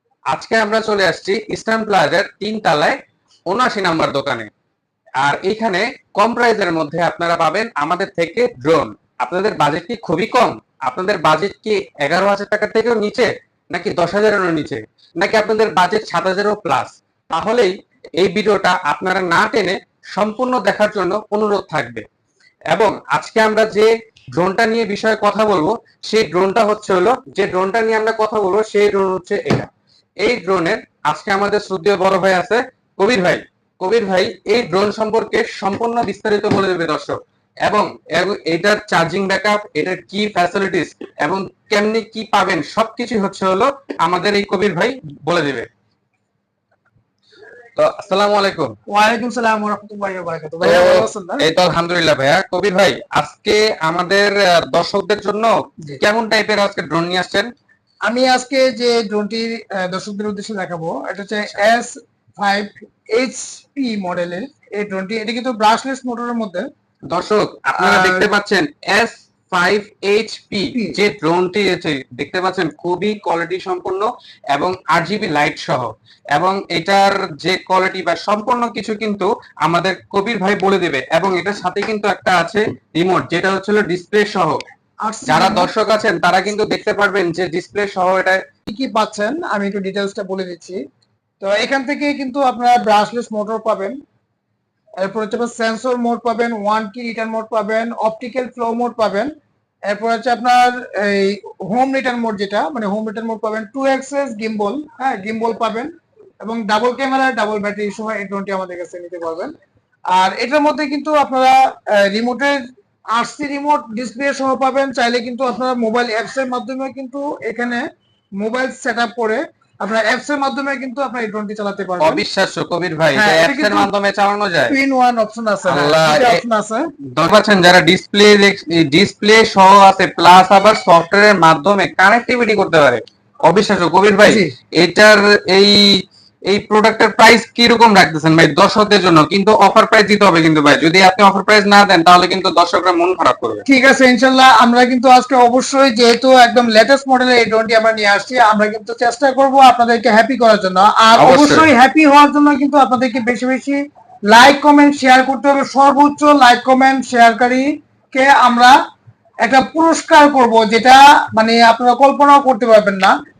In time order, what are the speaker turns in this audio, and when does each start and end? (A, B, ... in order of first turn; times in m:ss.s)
0:00.3-0:03.0 A
0:03.5-0:04.5 A
0:05.2-0:22.0 A
0:22.7-0:29.7 A
0:30.2-0:45.7 A
0:47.8-0:48.7 A
0:48.9-0:51.4 B
0:50.6-0:57.5 A
0:58.0-1:06.6 B
1:07.1-1:24.6 A
1:07.8-1:08.3 B
1:25.0-1:25.7 B
1:25.2-1:28.4 A
1:28.7-1:30.8 B
1:31.4-1:34.0 B
1:35.0-1:39.3 B
1:39.9-1:45.9 B
1:46.4-1:49.5 B
1:50.1-1:52.6 B
1:53.1-1:57.8 B
1:58.4-2:02.2 B
2:02.0-2:04.7 A
2:03.2-2:03.9 B
2:04.7-2:06.8 B
2:05.7-2:06.4 A
2:07.2-2:23.6 A
2:14.2-2:14.5 B
2:23.7-2:38.7 B
2:31.2-2:31.7 A
2:39.4-2:43.1 B